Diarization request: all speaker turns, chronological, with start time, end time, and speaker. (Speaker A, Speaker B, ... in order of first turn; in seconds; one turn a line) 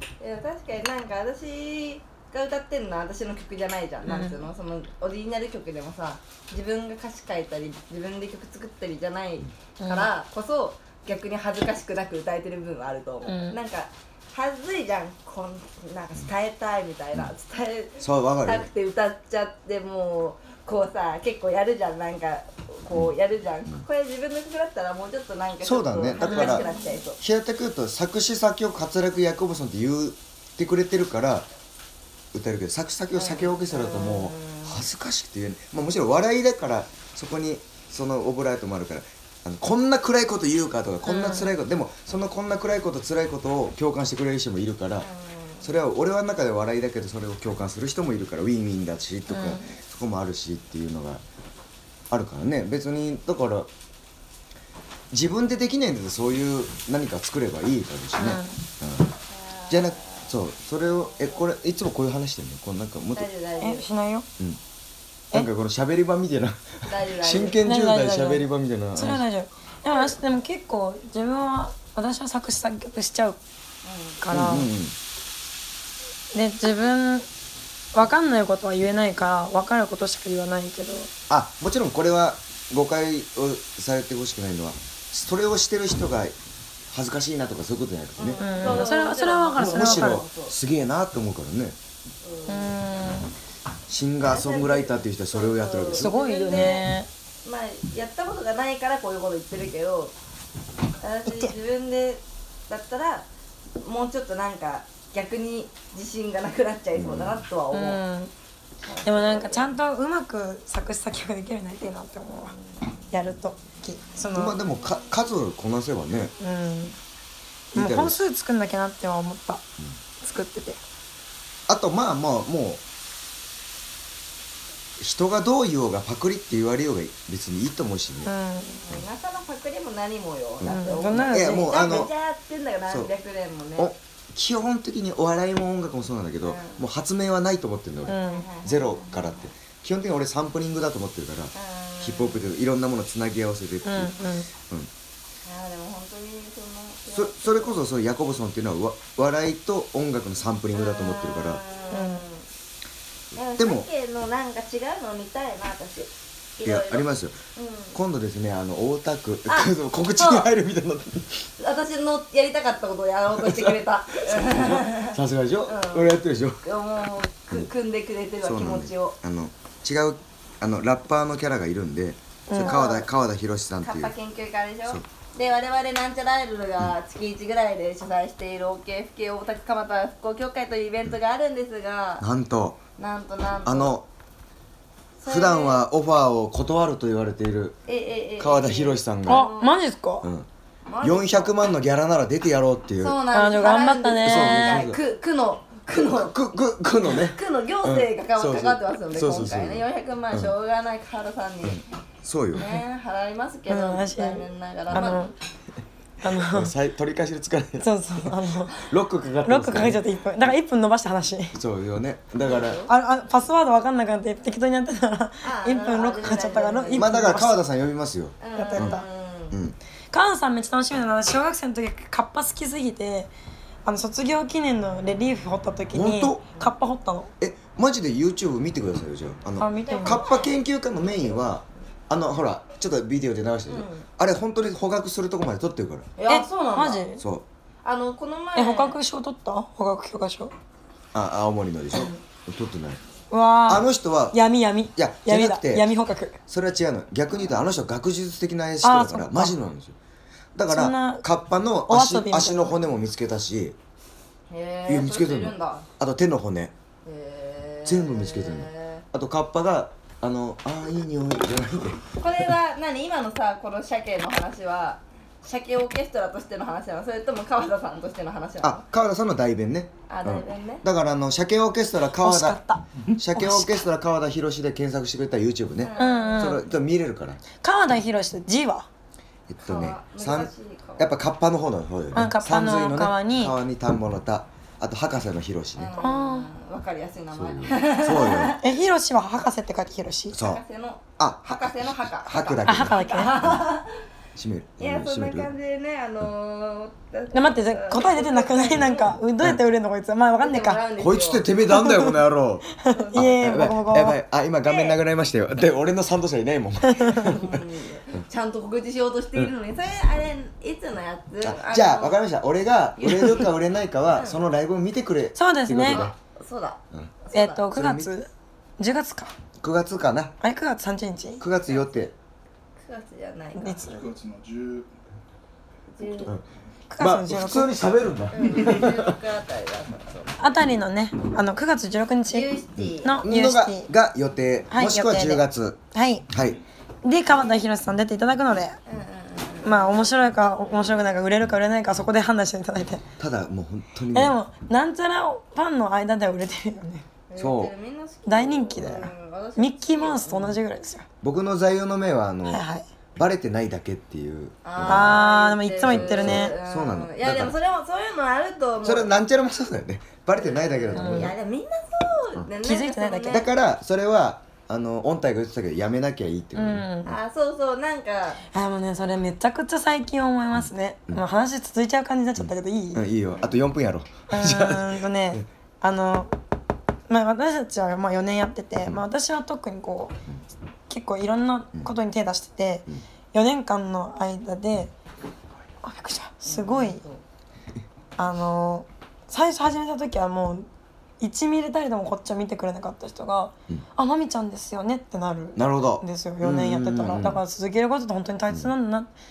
Speaker A: 0.2-27.2
Speaker B: 4.1-4.4
Speaker B: 9.8-10.1
Speaker B: 13.3-13.6
Speaker C: 18.0-18.7
Speaker C: 25.6-26.7
Speaker B: 26.2-26.8
Speaker C: 27.2-31.5
Speaker C: 32.3-45.1
Speaker A: 33.1-34.8
Speaker B: 41.1-41.5
Speaker A: 45.0-45.7
Speaker C: 45.6-51.2
Speaker B: 49.3-49.7
Speaker C: 52.1-53.7
Speaker C: 55.1-59.1
Speaker B: 58.2-58.6
Speaker A: 59.3-60.3
Speaker C: 59.7-63.3
Speaker A: 63.1-63.9
Speaker B: 63.6-64.3
Speaker C: 65.3-69.2
Speaker A: 66.9-67.6
Speaker B: 67.6-73.4
Speaker A: 73.8-74.2
Speaker B: 74.2-74.7
Speaker C: 74.3-75.0
Speaker B: 76.3-77.3
Speaker B: 77.9-81.1
Speaker C: 81.3-86.4
Speaker C: 86.9-88.9
Speaker A: 88.2-90.5
Speaker B: 88.4-90.2
Speaker C: 89.6-91.8
Speaker A: 92.2-92.8
Speaker B: 92.5-93.3
Speaker C: 93.9-96.7
Speaker A: 94.2-96.9
Speaker B: 96.0-97.1
Speaker A: 97.5-100.1
Speaker A: 101.0-103.3
Speaker B: 101.3-101.5
Speaker A: 103.8-108.0
Speaker C: 107.0-107.4
Speaker B: 107.7-108.3
Speaker A: 108.8-109.7
Speaker B: 109.0-112.5
Speaker B: 113.1-114.6
Speaker C: 114.3-116.3
Speaker B: 116.4-117.0
Speaker C: 117.7-118.2
Speaker B: 117.7-119.7
Speaker B: 120.2-120.8
Speaker C: 121.7-122.8
Speaker C: 125.0-128.3
Speaker B: 128.2-128.8
Speaker A: 128.8-133.9
Speaker C: 130.6-132.1
Speaker B: 130.7-132.1
Speaker C: 133.8-144.9
Speaker A: 136.4-136.8
Speaker A: 138.1-139.5
Speaker B: 138.1-138.5
Speaker A: 141.6-142.6
Speaker B: 143.8-144.5
Speaker A: 145.4-147.8
Speaker C: 147.1-151.6
Speaker A: 150.7-152.5
Speaker B: 151.9-152.2
Speaker A: 153.3-158.0
Speaker C: 153.6-153.9
Speaker C: 156.6-157.4
Speaker C: 157.9-161.5
Speaker A: 159.5-160.5
Speaker A: 161.6-169.2
Speaker C: 163.4-166.6
Speaker C: 168.4-174.1
Speaker B: 172.5-172.8
Speaker A: 172.6-173.1
Speaker A: 173.8-182.2
Speaker C: 182.2-182.8
Speaker A: 183.0-183.9
Speaker C: 183.7-184.1
Speaker A: 185.2-185.8
Speaker C: 185.3-187.8
Speaker A: 187.9-189.8
Speaker C: 188.4-189.5
Speaker B: 189.3-190.3
Speaker C: 190.2-190.5
Speaker A: 190.9-191.6
Speaker C: 191.0-193.2
Speaker A: 193.0-196.4
Speaker B: 193.3-194.9
Speaker C: 194.2-195.0
Speaker C: 196.1-200.5
Speaker A: 197.0-201.8
Speaker C: 201.6-202.7
Speaker A: 202.5-205.3
Speaker B: 203.7-205.3
Speaker C: 204.9-205.2
Speaker B: 206.2-206.7
Speaker C: 206.3-210.0
Speaker B: 207.8-208.8
Speaker B: 209.4-211.6
Speaker C: 211.5-212.8
Speaker A: 212.4-212.9
Speaker B: 212.9-217.6
Speaker A: 215.4-217.2
Speaker C: 216.9-219.8
Speaker A: 218.4-219.6
Speaker B: 218.6-219.1
Speaker B: 220.1-223.3
Speaker B: 223.8-227.3
Speaker C: 225.9-226.5
Speaker C: 227.4-236.1
Speaker B: 229.6-230.2
Speaker A: 229.9-230.6
Speaker A: 233.7-234.1
Speaker A: 236.2-237.1
Speaker B: 236.3-237.2
Speaker C: 237.2-237.4
Speaker A: 237.8-239.0
Speaker B: 238.6-240.5
Speaker C: 241.1-243.0
Speaker B: 243.3-246.4
Speaker C: 243.7-244.4
Speaker C: 245.0-245.9
Speaker C: 246.5-250.0
Speaker B: 248.8-249.6
Speaker C: 250.6-253.8
Speaker B: 250.7-251.2
Speaker B: 251.9-252.8
Speaker A: 254.5-255.9
Speaker C: 254.9-256.7
Speaker A: 257.1-259.0
Speaker C: 257.9-262.0
Speaker A: 262.2-268.8
Speaker C: 268.6-277.4
Speaker A: 270.1-270.8
Speaker B: 272.2-273.9
Speaker A: 275.8-276.6
Speaker B: 276.0-276.6
Speaker B: 277.6-278.9
Speaker C: 279.5-285.9
Speaker A: 279.6-281.1
Speaker B: 282.1-283.6
Speaker A: 285.8-288.6
Speaker B: 286.0-286.5
Speaker C: 287.3-288.6
Speaker B: 288.6-290.4
Speaker C: 290.3-290.6
Speaker A: 290.4-293.9
Speaker C: 291.2-293.7
Speaker B: 292.7-293.3
Speaker C: 294.4-295.5
Speaker A: 294.8-299.2
Speaker B: 297.3-300.8
Speaker A: 300.4-301.5
Speaker C: 301.0-307.7
Speaker B: 301.7-302.2
Speaker B: 302.8-304.2
Speaker A: 302.9-303.3
Speaker A: 304.6-305.0
Speaker B: 306.8-307.3
Speaker A: 307.2-312.2
Speaker C: 311.4-316.1
Speaker A: 313.0-313.5
Speaker A: 314.1-314.4
Speaker B: 315.4-316.1
Speaker A: 315.9-317.7
Speaker B: 317.3-319.3
Speaker C: 317.7-318.1
Speaker C: 319.6-320.4
Speaker B: 320.4-321.4
Speaker C: 321.4-322.1
Speaker A: 322.8-323.9
Speaker B: 323.6-324.2
Speaker A: 326.0-326.4
Speaker B: 326.9-327.7
Speaker C: 327.0-329.2
Speaker A: 328.3-330.4
Speaker B: 330.4-333.9
Speaker A: 332.3-333.2
Speaker C: 332.8-336.6
Speaker B: 334.7-336.3
Speaker B: 337.0-338.8
Speaker A: 338.9-340.1
Speaker B: 339.6-343.0
Speaker C: 343.2-344.4
Speaker B: 344.1-347.1
Speaker A: 347.3-350.6
Speaker C: 347.4-347.7
Speaker B: 348.3-351.1
Speaker C: 351.2-352.6
Speaker B: 352.5-352.9
Speaker C: 353.2-355.2
Speaker A: 354.6-359.1
Speaker B: 354.9-356.6
Speaker C: 355.8-357.5
Speaker C: 358.8-361.4
Speaker A: 360.4-363.5
Speaker B: 360.9-361.3
Speaker B: 362.6-363.4
Speaker C: 363.3-366.9
Speaker B: 366.6-367.1
Speaker A: 367.1-368.4
Speaker B: 368.5-373.1
Speaker C: 370.6-371.2
Speaker C: 372.4-375.4
Speaker B: 374.3-376.3
Speaker B: 377.1-380.2
Speaker B: 380.9-384.9
Speaker B: 385.8-387.0
Speaker A: 386.5-387.2
Speaker B: 388.2-390.7
Speaker B: 391.2-399.1
Speaker C: 395.6-397.4